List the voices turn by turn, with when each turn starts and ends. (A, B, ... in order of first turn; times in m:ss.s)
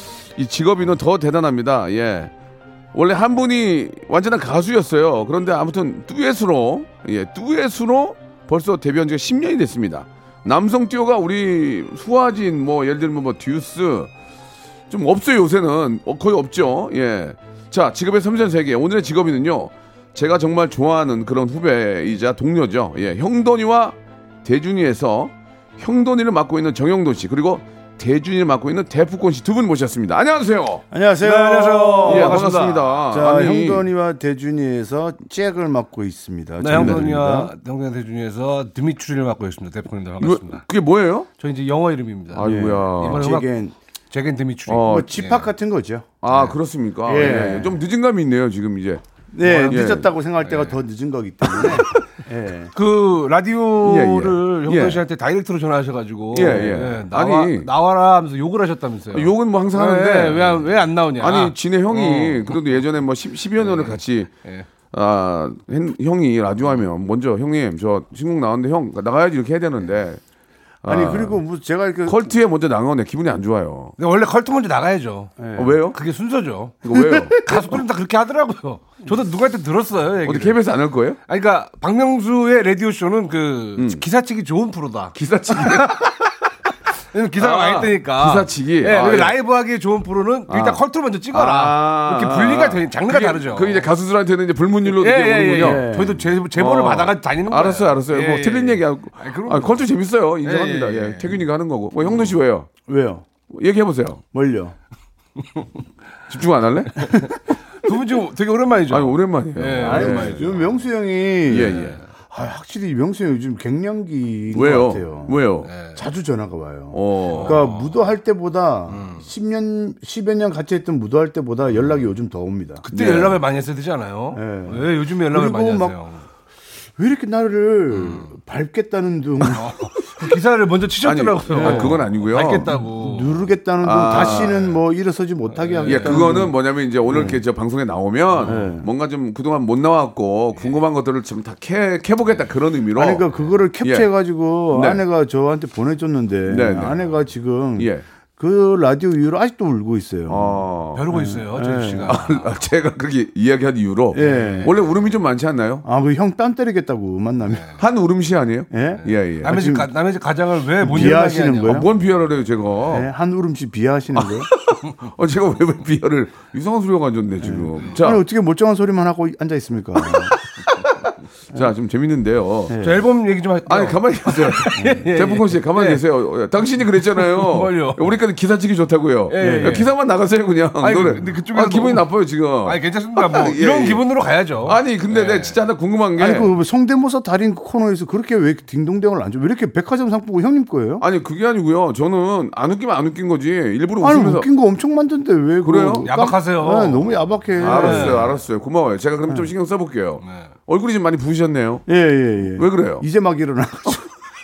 0:00.4-0:02.3 A
0:02.9-0:14.1 A
0:14.9-0:30.8 A
0:30.9-0:37.5 B
0:31.2-0:32.8 C
0:32.0-0:33.9 A
0:36.6-0:40.6 C
0:36.7-0:37.0 A
0:40.2-0:41.3 A
0:41.4-0:43.5 C
0:42.3-0:43.2 A
0:42.4-0:43.8 B
0:44.1-0:45.5 C
0:44.7-0:45.1 A
0:44.8-0:46.2 B
0:46.2-0:49.0 A
0:47.1-0:47.8 B
0:49.3-0:52.7 B
0:49.4-0:49.9 C
0:49.7-0:50.1 A
0:50.4-0:50.8 C
0:52.7-1:02.6 C
0:53.8-0:55.0 A
0:56.3-0:57.7 A
0:56.4-0:56.7 B
0:59.1-1:04.3 A
1:03.6-1:04.7 C
1:04.9-1:10.2 A
1:10.8-1:11.4 A
1:10.8-1:12.3 B
1:12.1-1:13.9 A
1:14.0-1:15.4 C
1:15.4-1:15.8 B
1:15.6-1:16.0 A
1:15.9-1:16.8 C
1:16.8-1:17.6 A
1:17.3-1:20.6 C
1:20.2-1:21.2 A
1:21.3-1:26.2 C
1:23.8-1:24.0 A
1:25.2-1:26.1 A
1:27.1-1:33.9 C
1:27.4-1:29.4 A
1:30.5-1:30.8 A
1:31.3-1:35.8 A
1:34.8-1:39.8 C
1:35.6-1:36.2 B
1:36.6-1:42.7 A
1:40.4-1:41.4 C
1:42.9-1:43.3 B
1:43.5-1:44.2 A
1:44.3-1:44.8 B
1:46.3-1:47.1 A
1:47.0-1:50.7 C
1:48.9-1:50.5 A
1:49.8-2:02.8 B
1:51.5-1:52.0 A
1:51.6-1:52.0 C
1:54.5-1:55.7 A
1:55.6-1:56.0 C
1:56.9-1:57.7 A
1:57.3-1:58.0 C
1:58.9-1:59.3 C
2:02.8-2:06.2 C
2:02.9-2:03.4 A
2:04.3-2:06.0 B
2:07.0-2:09.7 B
2:07.9-2:08.3 C
2:09.5-2:13.5 C
2:11.0-2:12.7 A
2:11.5-2:12.1 B
2:12.7-2:16.5 B
2:13.8-2:14.7 A
2:14.1-2:14.8 C
2:15.5-2:16.5 C
2:15.8-2:23.3 A
2:17.1-2:17.4 B
2:18.4-2:18.7 C
2:18.4-2:18.9 B
2:20.6-2:20.8 C
2:22.9-2:32.2 B
2:23.8-2:24.1 A
2:24.7-2:25.0 A
2:26.5-2:27.1 A
2:27.8-2:28.0 A
2:30.3-2:31.1 A
2:31.0-2:32.6 C
2:32.0-2:35.9 A
2:34.1-2:34.8 B
2:34.2-2:34.8 C
2:35.8-2:37.7 B
2:37.8-2:39.6 A
2:38.7-2:39.9 B
2:39.4-2:41.8 C
2:40.8-2:41.9 B
2:41.7-2:43.1 A
2:42.9-2:44.5 B
2:44.8-2:48.2 A
2:47.4-2:50.4 B
2:51.5-2:52.7 A
2:52.7-2:53.0 B
2:52.8-2:56.0 C
2:53.7-3:04.0 A
2:56.9-2:58.0 C
2:59.3-2:59.9 C
2:59.4-2:59.8 B
3:00.8-3:02.1 C
3:02.6-3:05.6 C
3:04.6-3:06.5 A
3:06.2-3:11.0 B
3:11.0-3:14.5 A
3:14.0-3:18.3 B
3:15.6-3:16.1 A
3:16.0-3:18.4 C
3:17.6-3:21.9 A
3:20.2-3:20.5 C
3:21.9-3:24.1 B
3:22.5-3:23.1 A